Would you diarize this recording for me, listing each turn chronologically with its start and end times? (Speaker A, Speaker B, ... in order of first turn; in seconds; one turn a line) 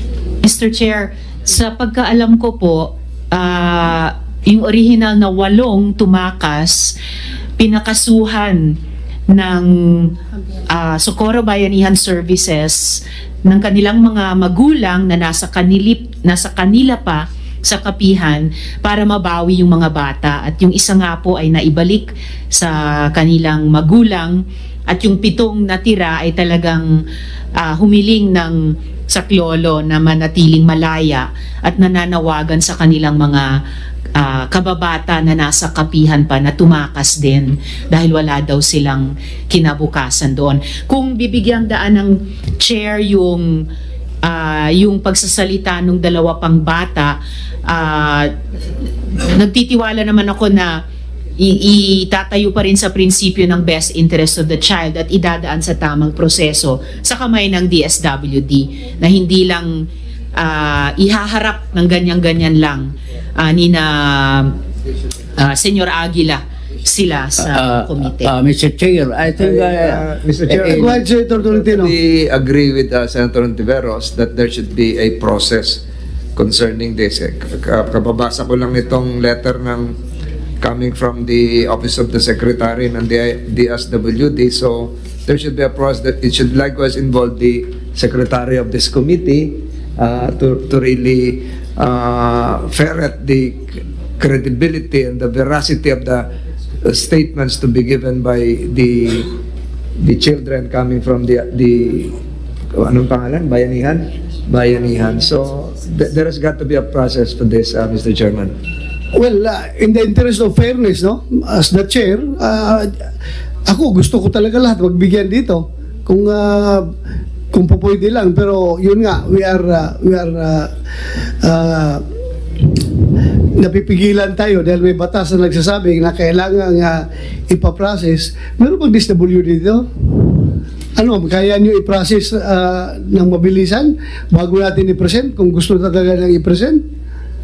Speaker A: 0.4-6.9
Speaker A: 7.6-8.8
Speaker A: 9.3-10.2
Speaker A: 10.7-27.0
Speaker A: 27.6-33.6
Speaker A: 34.1-43.6
Speaker A: 44.2-48.3
Speaker A: 49.2-50.8
Speaker A: 51.4-64.5
Speaker A: 65.3-68.3
Speaker B: 67.4-71.0
Speaker C: 69.4-75.8
Speaker D: 70.8-72.0
Speaker C: 76.3-80.0
Speaker C: 80.6-96.3
Speaker C: 96.8-99.3
Speaker C: 100.0-102.1
Speaker C: 102.7-108.5
Speaker D: 109.1-112.9
Speaker D: 113.7-116.9
Speaker D: 117.5-120.7
Speaker D: 121.4-122.0
Speaker D: 123.6-129.9
Speaker D: 130.9-136.8